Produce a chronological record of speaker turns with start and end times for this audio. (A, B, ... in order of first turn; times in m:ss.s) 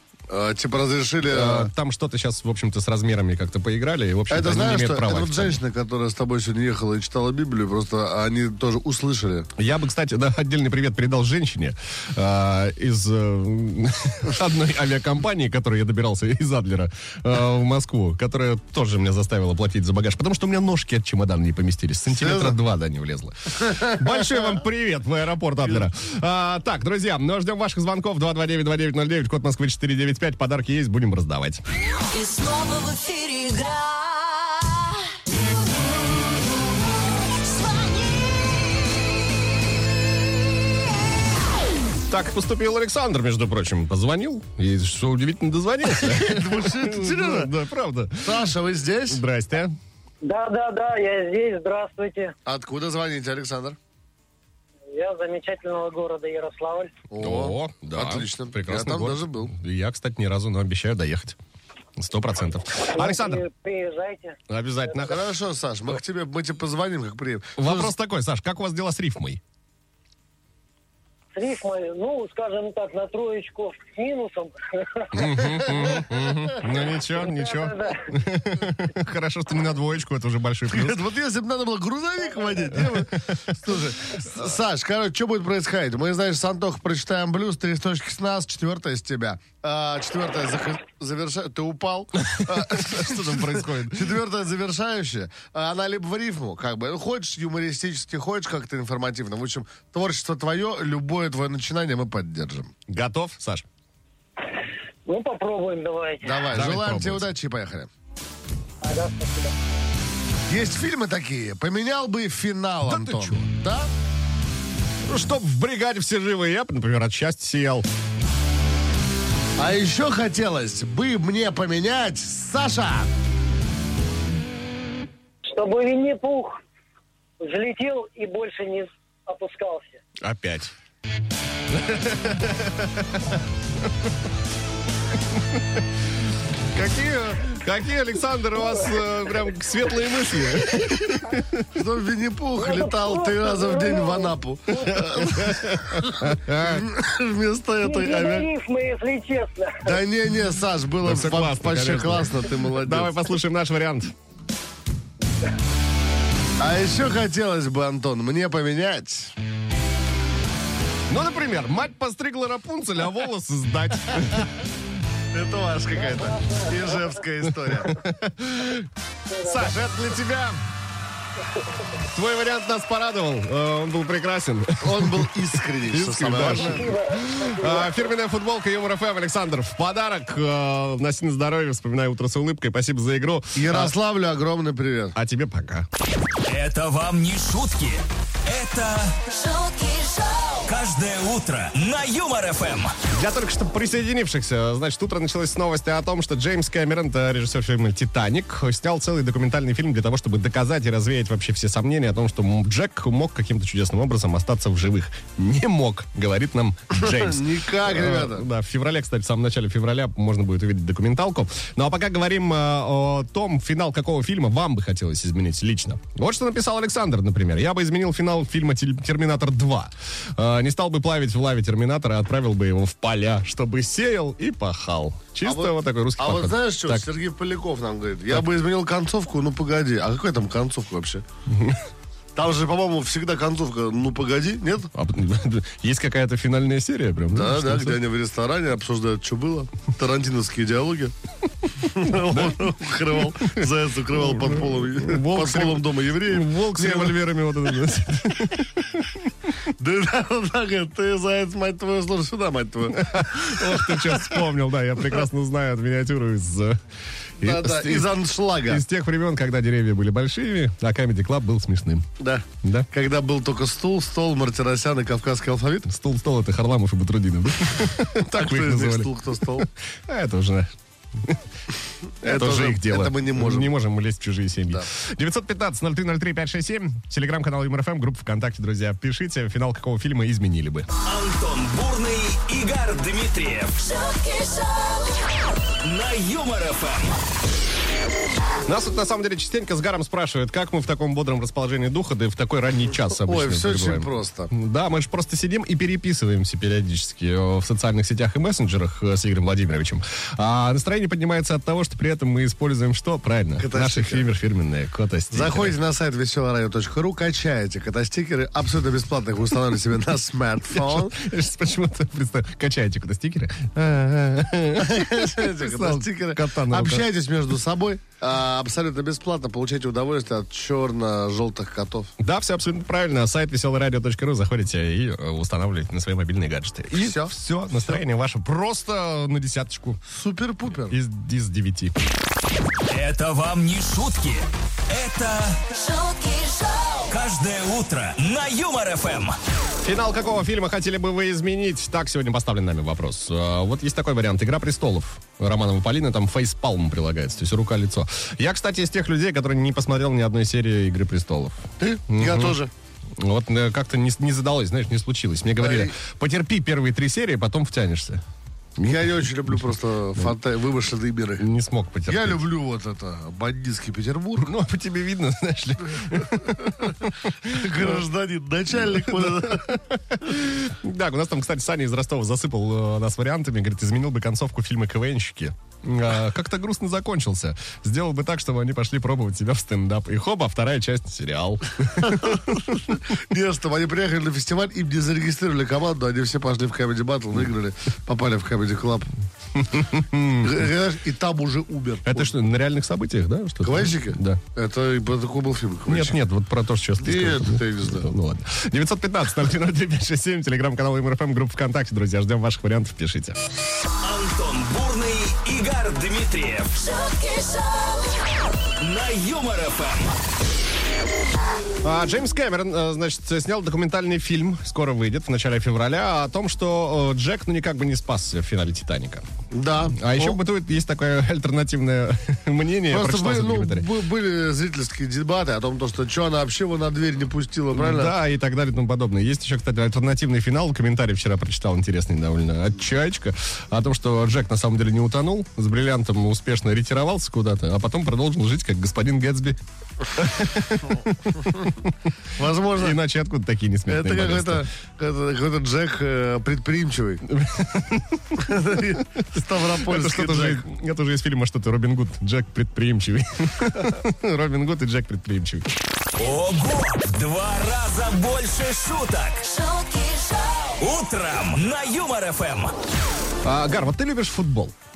0:00.3-0:01.7 A
0:01.2-0:05.6 B
0:04.3-0:09.5 A
0:09.6-0:31.6 B
0:22.2-0:22.6 A
0:23.6-0:24.6 A
0:32.1-0:34.7 C
0:37.6-0:38.0 C
0:42.1-0:48.5 B
0:45.9-0:47.5 A
0:48.2-0:49.2 A
0:49.1-0:49.7 B
0:50.2-0:52.4 D
0:52.5-0:53.8 A
0:54.9-0:56.9 D
0:57.1-0:59.6 A
0:57.2-1:01.4 B
1:02.0-1:03.4 B
1:02.8-1:04.4 D
1:04.5-1:05.2 B
1:05.0-1:07.9 A
1:07.6-1:09.4 B
1:11.3-1:15.9 D
1:15.1-1:21.0 B
1:15.4-1:16.4 A
1:17.1-1:18.2 D
1:20.7-1:42.7 A
1:22.7-1:23.4 B
1:32.2-1:34.2 B
1:42.9-1:43.7 B
1:45.1-1:46.4 D
1:46.2-1:47.9 A
1:46.5-1:47.3 B
1:48.8-1:49.6 D
1:50.5-1:53.9 A
1:52.8-1:53.4 B
1:55.0-1:57.9 B
1:59.6-2:03.1 A
2:05.4-2:06.6 D
2:07.4-2:10.0 D
2:10.2-2:10.7 B
2:11.7-2:13.4 B
2:16.7-2:21.7 B
2:21.7-2:28.5 A
2:22.6-2:25.2 D
2:25.0-2:26.9 B
2:27.8-2:30.0 D
2:29.8-2:33.2 A
2:31.0-2:34.1 B
2:36.6-2:39.4 A
2:41.1-2:44.6 B
2:45.3-2:48.0 A
2:46.1-2:47.0 D
2:47.6-2:48.9 B
2:49.3-2:49.8 D
2:49.4-2:50.6 B
2:52.0-3:03.9 B
2:54.8-2:56.9 A
2:56.4-2:58.1 D
3:03.6-3:05.2 A
3:05.2-3:05.9 B
3:06.5-3:09.3 E
3:09.3-3:10.6 C
3:10.6-3:13.0 E
3:13.1-3:47.1 B
3:27.0-3:28.5 A
3:45.4-3:51.2 A
3:51.5-3:51.8 B
3:52.4-3:54.9 A
3:54.9-3:58.0 B
3:57.3-4:01.1 A
4:01.8-4:07.2 A
4:02.0-4:02.7 B
4:03.3-4:09.1 B
4:09.8-4:14.4 A
4:12.9-4:16.8 B
4:17.4-4:22.1 B
4:17.4-4:18.8 A
4:22.2-4:25.9 A
4:22.6-4:22.9 B
4:25.9-4:31.4 B
4:28.3-4:29.7 A
4:32.2-4:33.8 A
4:32.2-4:40.9 B
4:41.0-4:43.9 E
4:43.9-4:45.0 C
4:45.8-4:47.2 E
4:48.7-5:05.8 B
4:53.2-4:54.5 A
5:03.6-5:04.3 A
5:05.3-5:11.2 A
5:10.7-5:17.1 B
5:14.8-5:22.1 A
5:22.2-5:30.0 B
5:27.0-5:28.0 A
5:30.1-5:31.0 A
5:30.9-5:32.0 B
5:32.9-5:35.8 E
5:35.8-5:37.0 C
5:37.1-5:39.4 E
5:39.8-5:52.6 B
5:51.8-5:52.7 A
5:53.2-5:58.2 B
5:55.6-5:56.0 A
5:58.8-6:01.4 A
6:01.4-6:02.4 B
6:02.1-6:04.5 A
6:04.4-6:08.0 B
6:06.6-6:09.8 A
6:08.8-6:22.6 B
6:22.0-6:29.1 A
6:29.6-6:30.7 B
6:30.4-6:32.3 A
6:32.0-6:34.4 B
6:33.6-6:36.2 A
6:35.9-6:43.4 B
6:37.0-6:38.1 A
6:44.0-6:46.9 E
6:46.8-6:48.1 C
6:48.8-6:50.2 E
6:51.8-6:59.3 B
6:59.5-7:00.4 A
6:59.9-7:03.9 B
7:02.9-7:08.1 A
7:07.7-7:21.9 B
7:22.4-7:23.0 A
7:22.7-7:24.7 B
7:23.9-7:27.2 A
7:27.3-7:35.7 B
7:28.4-7:30.6 A
7:36.2-7:39.5 E
7:39.4-7:40.7 C
7:40.8-7:42.7 E
7:43.4-7:44.8 B